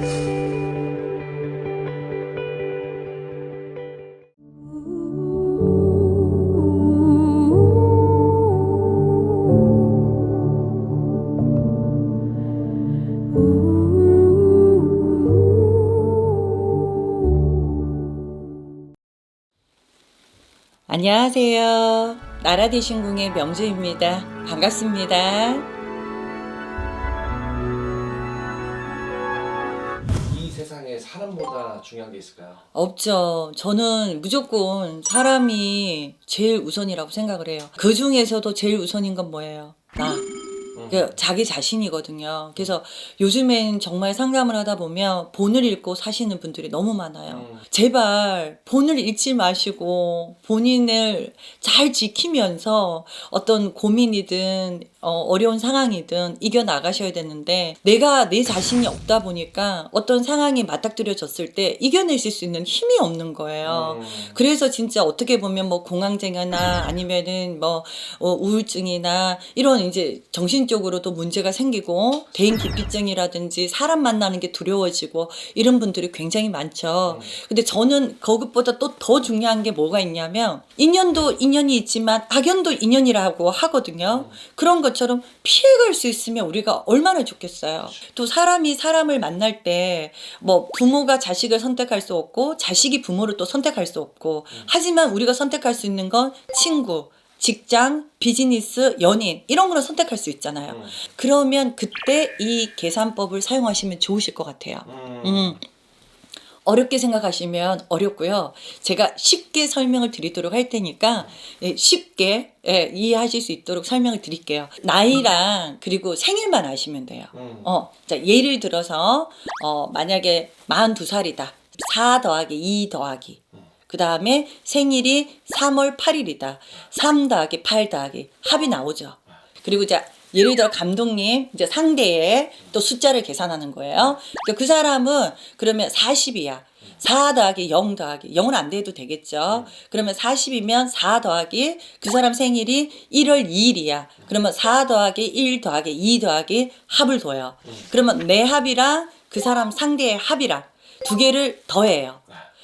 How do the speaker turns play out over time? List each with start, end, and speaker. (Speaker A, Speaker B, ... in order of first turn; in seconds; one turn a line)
Speaker A: 20.9-25.7
Speaker B: 30.2-32.6
Speaker A: 32.7-40.3
Speaker B: 40.8-41.1
Speaker A: 40.9-105.6
Speaker B: 47.3-47.6
Speaker B: 63.6-64.4
Speaker B: 104.9-105.6
Speaker A: 106.7-152.2
Speaker B: 117.3-117.7